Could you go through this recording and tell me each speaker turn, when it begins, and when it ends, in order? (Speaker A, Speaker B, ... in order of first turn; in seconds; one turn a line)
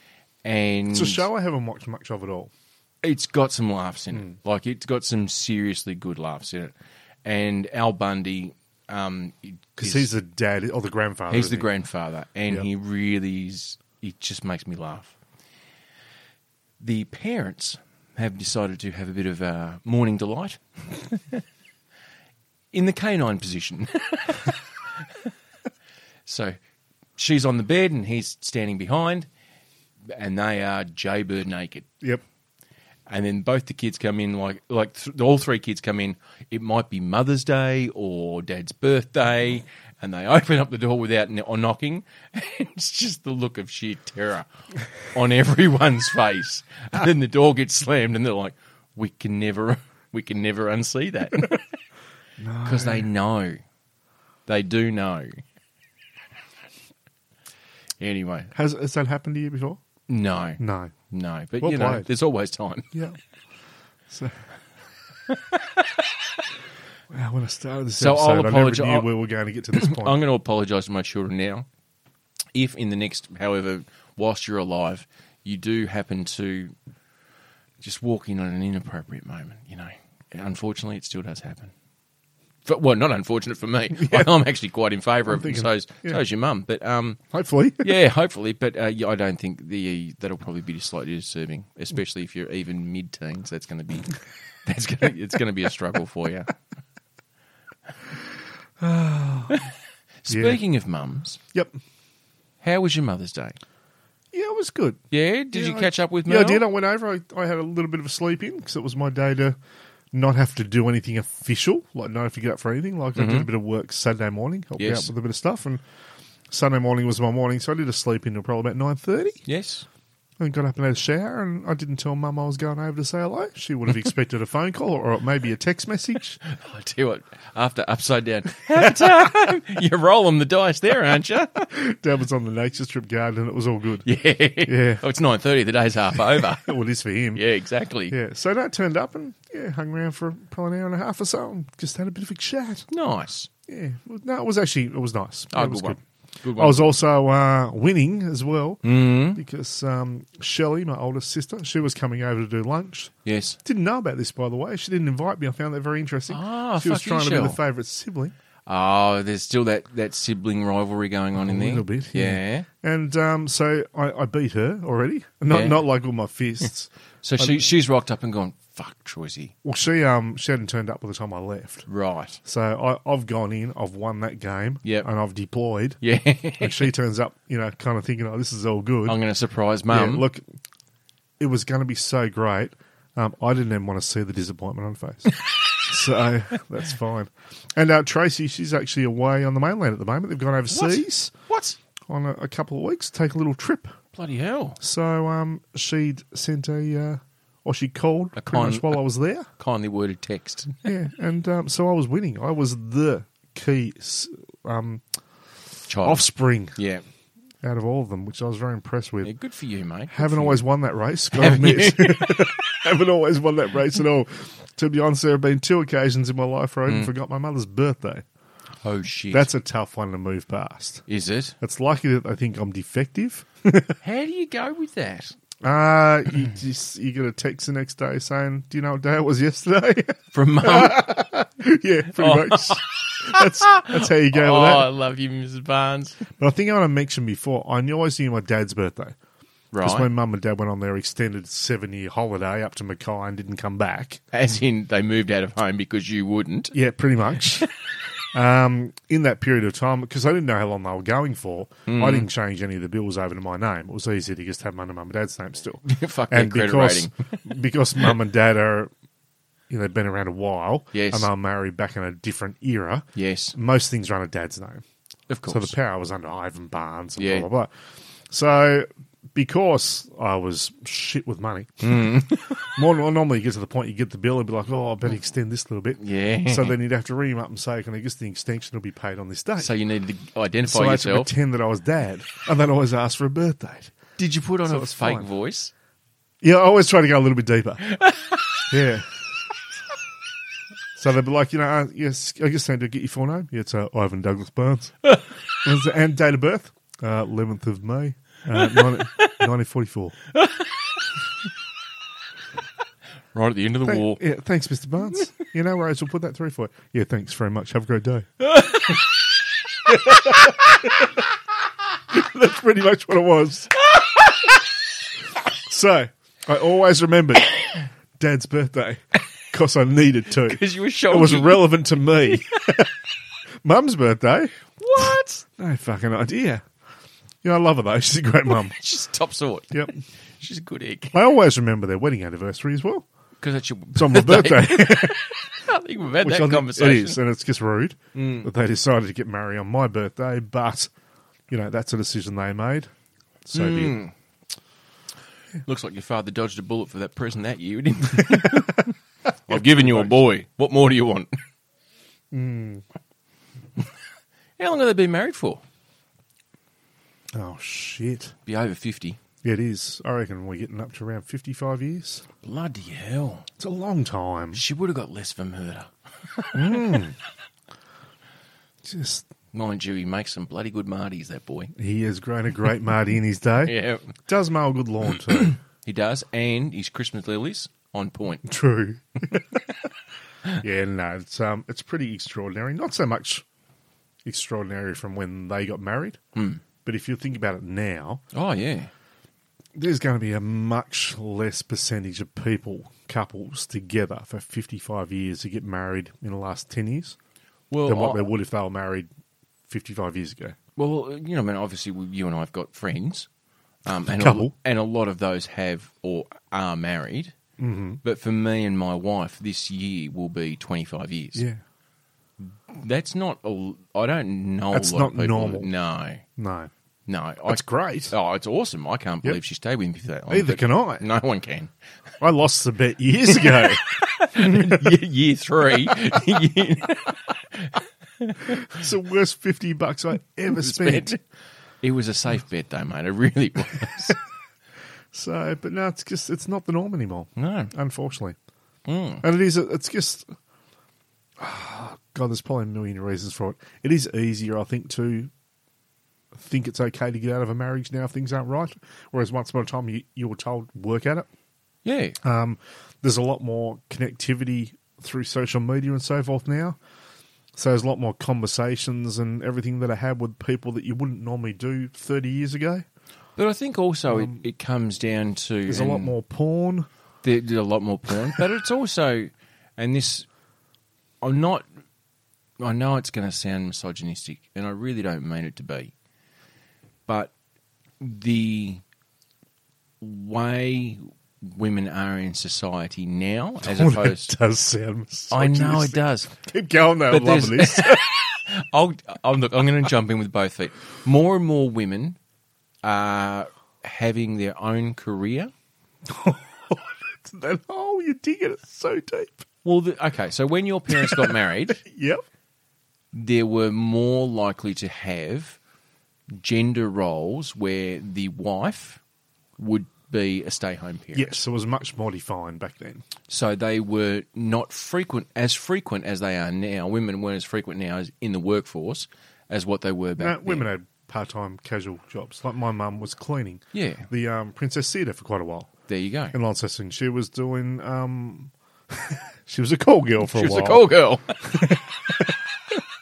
Speaker A: 0.4-1.3
Speaker B: 0.9-2.5
Speaker A: 3.0-10.1
Speaker B: 9.8-11.7
Speaker A: 11.3-15.2
Speaker A: 16.8-21.4
Speaker A: 22.7-24.6
Speaker A: 26.2-26.6
Speaker A: 27.2-29.3
Speaker A: 30.1-31.9
Speaker A: 33.1-44.5
Speaker A: 45.0-51.6
Speaker B: 52.4-53.1
Speaker A: 52.6-53.6
Speaker A: 54.5-55.4
Speaker A: 58.0-58.5
Speaker B: 58.5-59.8
Speaker A: 60.1-62.9
Speaker B: 60.6-60.9
Speaker B: 61.6-62.1
Speaker B: 64.1-64.4
Speaker A: 65.3-66.2
Speaker B: 67.1-70.2
Speaker A: 68.0-69.1
Speaker A: 69.7-71.7
Speaker A: 72.5-76.7
Speaker A: 77.8-81.7
Speaker A: 82.6-87.2
Speaker B: 83.9-84.3
Speaker B: 85.3-86.2
Speaker B: 87.3-87.9
Speaker A: 87.8-96.5
Speaker B: 98.8-99.6
Speaker A: 100.2-101.4
Speaker B: 100.3-100.6
Speaker A: 102.6-103.6
Speaker B: 104.3-109.5
Speaker A: 105.1-106.7
Speaker B: 110.1-115.8
Speaker A: 113.2-113.5
Speaker A: 114.8-115.1
Speaker B: 116.5-119.4
Speaker A: 119.5-119.8
Speaker B: 120.4-126.4
Speaker A: 126.5-131.7
Speaker B: 128.7-129.3
Speaker B: 131.6-134.1
Speaker A: 134.0-136.7
Speaker B: 134.7-135.0
Speaker B: 136.3-137.4
Speaker A: 137.3-138.2
Speaker B: 138.1-142.8
Speaker A: 142.9-143.5
Speaker B: 143.7-146.0
Speaker A: 145.5-146.9
Speaker B: 146.6-148.8
Speaker A: 148.8-149.4
Speaker B: 149.3-153.1
Speaker A: 153.2-153.6
Speaker B: 153.6-158.3
Speaker A: 156.3-157.6
Speaker A: 158.7-162.7
Speaker B: 161.3-167.7
Speaker A: 165.5-165.8
Speaker A: 167.2-169.5
Speaker B: 169.6-171.9
Speaker A: 171.9-172.4
Speaker B: 172.4-176.0
Speaker A: 176.0-176.9
Speaker B: 176.6-179.2
Speaker A: 179.1-180.2
Speaker B: 179.9-180.4
Speaker B: 181.4-191.3
Speaker A: 190.7-191.8
Speaker B: 192.1-193.9
Speaker A: 194.1-194.8
Speaker B: 194.8-199.5
Speaker A: 198.3-199.0
Speaker A: 199.6-200.8
Speaker B: 200.8-205.0
Speaker A: 205.9-207.0
Speaker B: 206.0-206.8
Speaker B: 207.6-209.3
Speaker A: 209.2-210.6
Speaker B: 210.1-218.2
Speaker A: 211.3-212.6
Speaker A: 218.8-219.5
Speaker B: 219.3-221.0
Speaker A: 221.1-221.5
Speaker B: 221.6-223.9
Speaker A: 224.0-225.3
Speaker B: 225.6-234.9
Speaker A: 230.3-231.2
Speaker A: 232.1-236.2
Speaker B: 236.4-239.2
Speaker A: 239.7-240.1
Speaker B: 239.8-244.2
Speaker A: 244.3-246.7
Speaker B: 246.7-247.7
Speaker B: 248.3-258.9
Speaker A: 251.9-252.3
Speaker A: 255.8-257.4
Speaker B: 259.7-264.8
Speaker A: 260.9-261.3
Speaker A: 263.1-263.5
Speaker A: 265.3-265.7
Speaker B: 265.5-267.7
Speaker A: 267.2-267.5
Speaker B: 268.3-279.7
Speaker A: 271.8-272.8
Speaker A: 276.0-276.7
Speaker A: 279.6-281.3
Speaker B: 280.6-283.9
Speaker A: 284.2-285.7
Speaker B: 284.7-285.3
Speaker B: 286.4-287.8
Speaker A: 287.8-288.7
Speaker B: 288.7-289.1
Speaker B: 290.9-294.9
Speaker B: 295.6-300.1
Speaker A: 298.5-299.4
Speaker A: 300.3-300.7
Speaker A: 303.3-304.2
Speaker B: 303.8-308.3
Speaker A: 308.4-309.1
Speaker B: 309.9-311.2
Speaker A: 309.9-310.6
Speaker B: 312.1-313.7
Speaker A: 313.9-314.5
Speaker B: 315.6-322.9
Speaker A: 320.4-322.6
Speaker B: 323.6-324.5
Speaker A: 324.8-325.4
Speaker B: 325.6-326.6
Speaker B: 327.4-328.8
Speaker A: 328.5-331.2
Speaker B: 331.1-333.1
Speaker A: 333.4-337.2
Speaker B: 333.9-335.2
Speaker B: 336.2-340.9
Speaker A: 338.1-338.5
Speaker B: 341.5-342.9
Speaker B: 343.4-344.0
Speaker A: 343.5-344.1
Speaker A: 345.6-348.9
Speaker B: 348.2-348.6
Speaker A: 349.5-351.3
Speaker B: 349.5-350.2
Speaker B: 352.3-352.8
Speaker A: 354.6-355.6
Speaker B: 357.3-358.3
Speaker A: 358.4-359.2
Speaker B: 359.4-362.2
Speaker A: 362.4-363.5
Speaker B: 363.6-364.6
Speaker A: 364.5-367.1
Speaker B: 366.5-367.1
Speaker B: 368.8-369.2
Speaker A: 369.5-371.7
Speaker B: 371.8-373.7
Speaker A: 373.6-374.1
Speaker B: 374.2-375.6
Speaker A: 375.8-378.5
Speaker B: 378.4-379.6
Speaker B: 380.6-383.4
Speaker B: 384.2-386.2
Speaker A: 386.3-386.6
Speaker B: 386.8-388.2
Speaker A: 388.3-388.9
Speaker B: 389.7-397.1
Speaker A: 397.7-398.3
Speaker B: 397.8-399.1
Speaker B: 399.7-400.6
Speaker A: 400.8-403.3
Speaker A: 403.8-407.3
Speaker B: 403.9-404.5
Speaker B: 407.6-408.0
Speaker A: 408.0-411.4
Speaker A: 412.4-416.2
Speaker B: 414.7-415.7
Speaker B: 416.4-416.7
Speaker A: 417.1-421.7
Speaker B: 417.5-418.1
Speaker B: 420.3-421.0
Speaker B: 422.2-425.0
Speaker A: 423.3-428.8
Speaker B: 428.5-431.1
Speaker A: 430.5-431.2
Speaker A: 431.8-434.2
Speaker B: 435.1-438.4
Speaker A: 437.4-437.7
Speaker A: 438.9-439.2
Speaker B: 439.2-440.3
Speaker B: 441.4-445.3
Speaker B: 446.3-451.3
Speaker A: 451.8-452.2
Speaker B: 452.2-456.8
Speaker B: 457.6-462.8
Speaker A: 463.4-466.1
Speaker B: 464.1-464.4
Speaker B: 465.7-466.9
Speaker A: 467.2-470.3
Speaker A: 471.2-471.6
Speaker A: 472.6-475.9
Speaker A: 477.1-477.3
Speaker A: 478.0-478.8
Speaker A: 480.0-484.3
Speaker B: 483.6-488.2
Speaker A: 485.3-486.3
Speaker A: 487.1-492.2
Speaker A: 492.8-495.5
Speaker B: 496.1-499.4
Speaker A: 499.6-501.8
Speaker B: 500.9-502.2
Speaker A: 503.1-505.6
Speaker A: 506.3-509.0
Speaker A: 509.6-511.4
Speaker B: 511.1-513.0
Speaker A: 513.3-520.6
Speaker B: 520.2-525.7
Speaker A: 523.7-524.1
Speaker A: 525.9-526.3
Speaker B: 526.3-530.9
Speaker A: 530.2-532.3
Speaker B: 531.4-532.3